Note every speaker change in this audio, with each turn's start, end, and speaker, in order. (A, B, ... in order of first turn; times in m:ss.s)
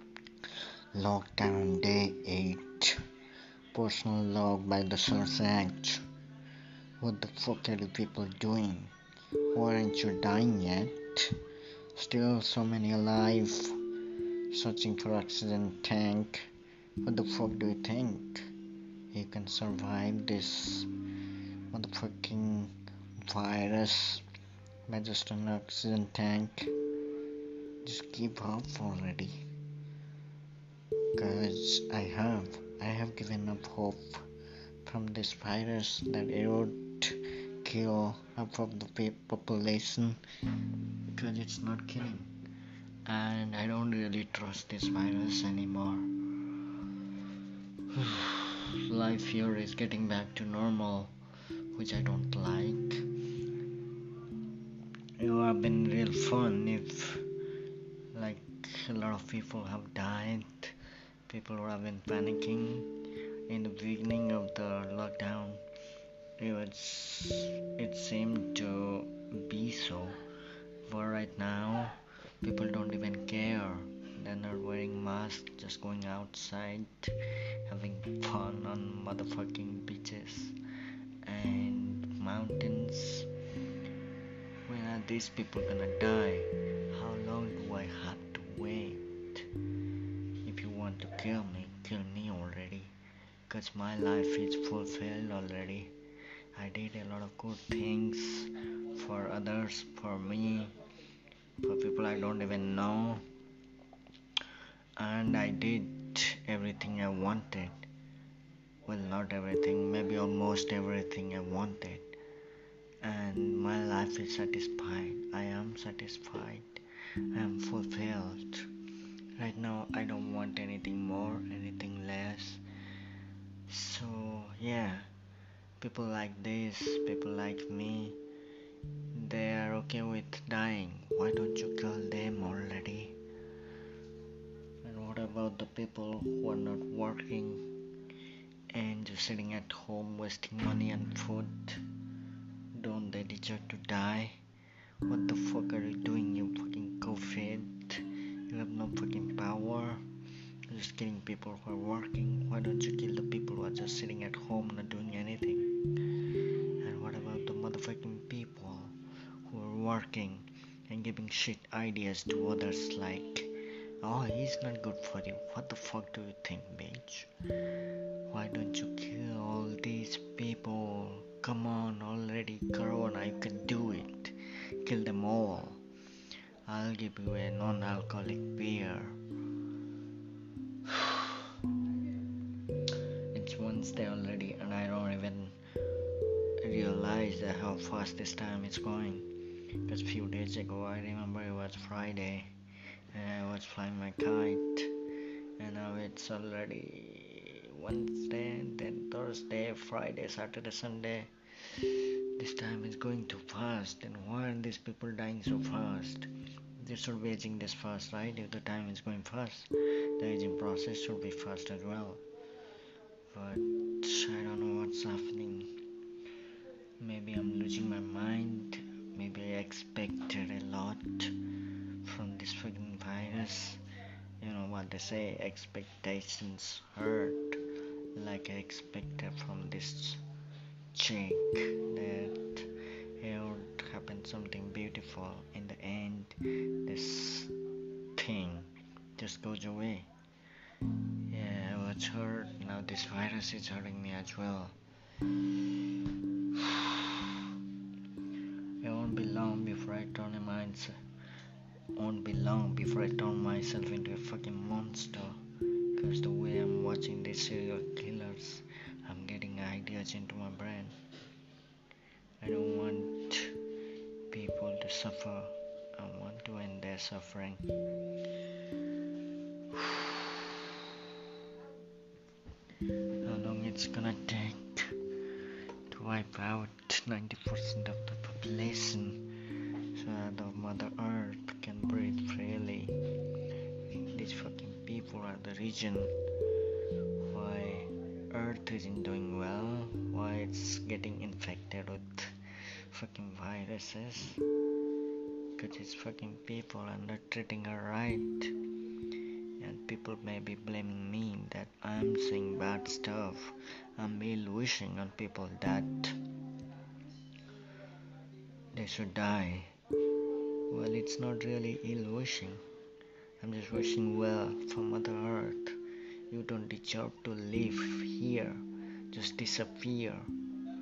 0:00.9-0:03.0 A
0:03.7-0:06.0 A
0:07.0-0:08.9 A
0:09.4-0:11.4 A
0:11.9-0:13.8 A
0:14.5-0:16.5 A
0:17.0-0:18.5 A
0:19.1-0:20.9 A
0:21.7-0:24.2 A
0:24.9-0:26.7 A
0:27.8-0:29.4 A
0:31.1-0:34.2 A
0:34.8-0:42.3 A
0:43.0-0:46.7 A
0:47.9-0:51.1 A
0:51.7-0:53.1 A
0:55.2-0:57.3 A
0:58.1-1:00.7 A
1:01.3-1:02.9 A
1:03.5-1:05.6 A
1:06.4-1:10.2 A
1:10.8-1:20.5 A
1:21.2-1:23.3 A
1:24.6-1:29.5 A
1:30.4-1:32.9 A
1:33.5-1:35.9 A
1:36.5-1:40.7 A
1:41.6-1:43.2 A
1:45.0-1:47.8 A
1:48.8-1:52.2 A
1:53.0-1:58.7 A
1:59.4-2:02.6 A
2:03.7-2:05.1 A
2:05.8-2:08.2 A
2:09.1-2:13.2 A
2:14.8-2:17.7 A
2:18.7-2:21.8 A
2:22.7-2:24.4 A
2:25.0-2:30.0 A
2:30.7-2:55.8 A
2:56.6-2:59.2 A
3:00.8-3:01.4 A
3:03.3-3:05.6 A
3:06.6-3:12.5 A
3:13.1-3:14.9 A
3:15.6-3:32.2 A
3:33.3-3:35.7 A
3:37.0-3:41.4 A
3:42.0-3:43.8 A
3:44.4-3:47.6 A
3:48.1-3:50.2 A
3:50.9-3:57.5 A
3:58.2-4:00.1 A
4:00.8-4:04.8 A
4:06.5-4:07.4 A
4:08.8-4:10.9 A
4:11.9-4:15.4 A
4:15.9-4:21.0 A
4:22.4-4:23.6 A
4:24.3-4:27.7 A
4:29.7-4:30.5 A
4:33.2-4:43.0 A
4:43.9-4:46.1 A
4:47.2-4:52.4 A
4:52.9-4:54.4 A
4:55.6-4:58.6 A
4:59.6-5:06.2 A
5:08.7-5:09.7 A
5:10.7-5:12.6 A
5:13.4-5:15.8 A
5:16.3-5:20.3 A